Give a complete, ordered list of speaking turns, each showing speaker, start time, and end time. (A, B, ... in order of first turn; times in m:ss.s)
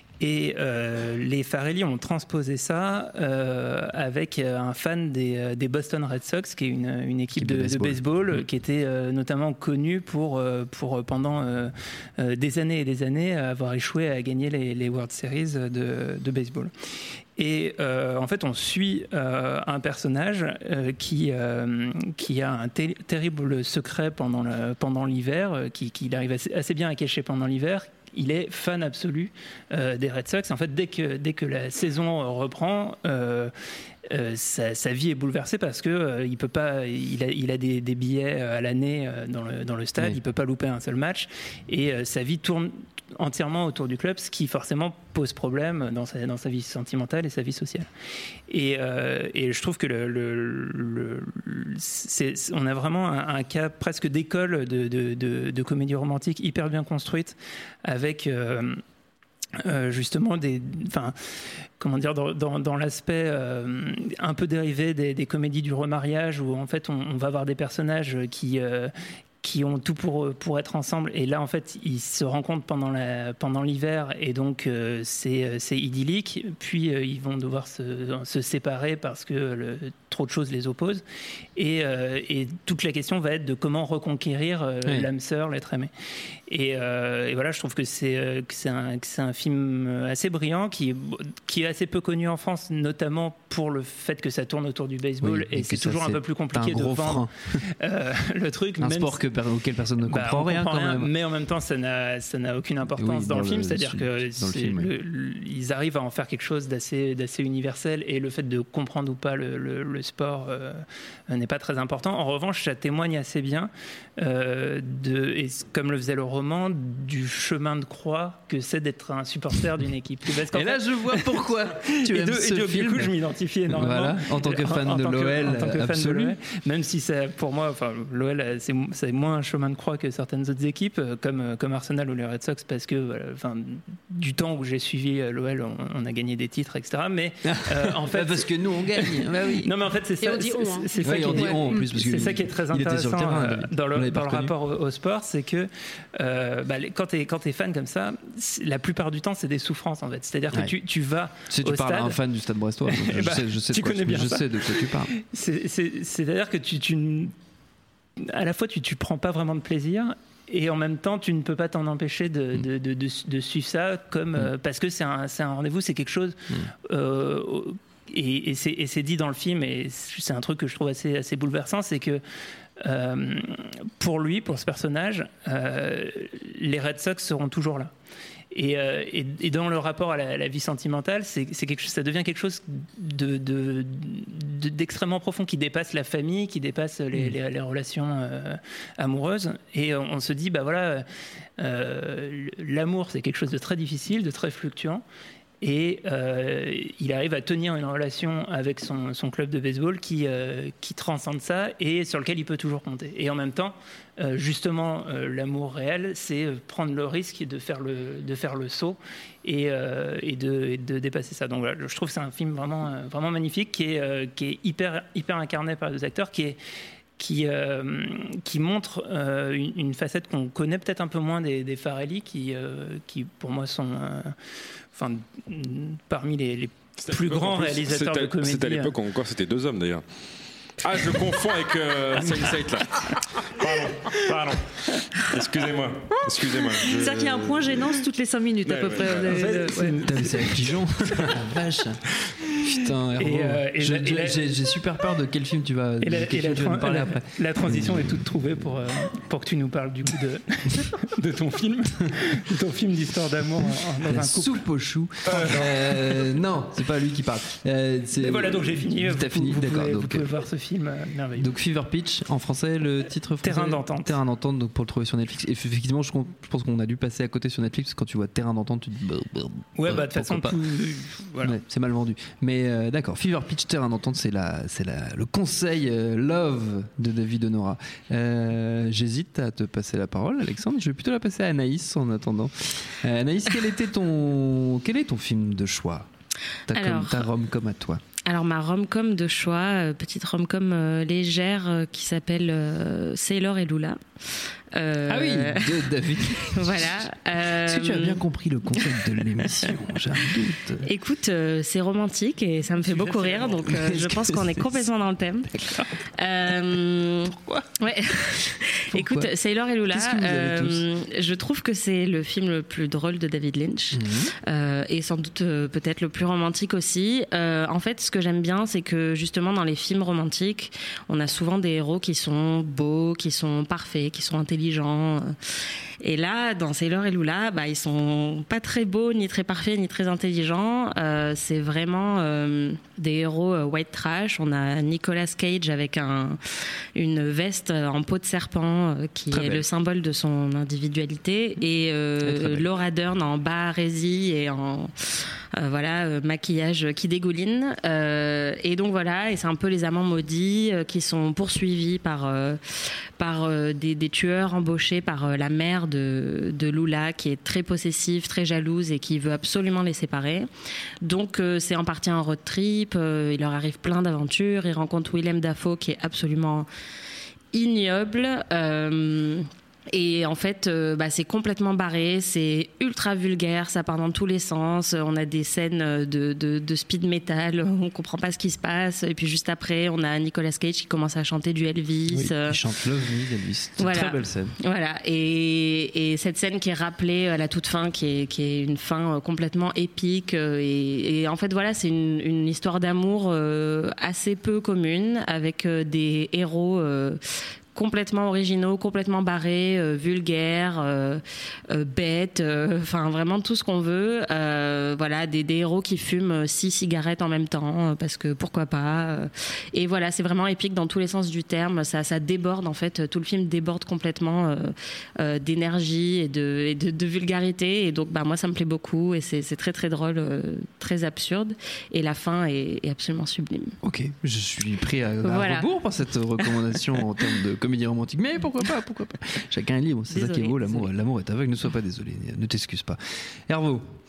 0:00.2-0:16.7 A
0:07.3-0:08.4 B
0:17.4-0:33.5 A
0:34.1-0:47.9 A
0:48.5-0:58.8 A
0:59.6-1:01.1 A
1:01.8-1:21.0 A
1:21.6-1:25.9 A
1:26.5-1:37.3 A
1:35.2-1:37.6 B
1:37.8-1:39.2 A
1:38.8-1:41.1 B
1:40.0-2:32.2 A
1:42.9-1:44.9 B
2:00.5-2:03.1 B
2:03.7-2:06.4 B
2:17.5-2:19.7 B
2:20.2-2:21.9 C
2:21.0-2:24.5 B
2:31.5-2:35.1 B
2:32.9-2:37.3 A
2:38.2-2:52.2 A
2:52.8-2:57.9 A
2:58.5-3:11.0 A
3:11.6-3:15.0 A
3:15.6-3:36.6 A
3:37.2-3:44.4 A
3:44.9-3:49.0 A
3:47.0-3:50.0 D
3:50.8-3:54.6 D
3:55.1-3:58.0 D
3:56.3-4:00.4 C
3:58.6-3:59.5 D
3:59.3-4:00.5 A
4:00.0-4:02.0 B
4:02.6-4:08.3 B
4:03.2-4:04.5 A
4:06.0-4:14.6 A
4:14.0-4:20.3 B
4:15.3-4:16.3 A
4:18.2-4:21.5 A
4:21.4-4:30.6 B
4:23.4-4:24.2 A
4:29.8-4:31.6 A
4:31.4-4:46.1 B
4:46.7-4:48.0 B
4:46.7-4:47.3 E
4:48.2-4:54.0 E
4:54.7-4:58.2 E
4:55.1-5:00.9 B
5:00.8-5:05.6 E
5:02.8-5:03.8 A
5:03.6-5:04.9 B
5:06.2-5:25.3 E
5:07.4-5:07.6 B
5:08.9-5:09.3 B
5:09.9-5:10.8 B
5:13.9-5:14.3 B
5:26.0-5:36.4 E
5:37.0-5:44.9 E
5:39.3-5:39.6 B
5:42.2-5:42.7 B
5:45.6-5:52.6 E
5:53.2-6:00.5 E
6:01.0-6:06.7 E
6:07.5-6:22.6 E
6:22.1-6:24.5 B
6:23.8-6:37.2 E
6:37.8-7:03.8 E
7:03.8-7:13.9 B
7:05.2-7:05.6 E
7:10.1-7:10.5 E
7:10.2-7:10.8 C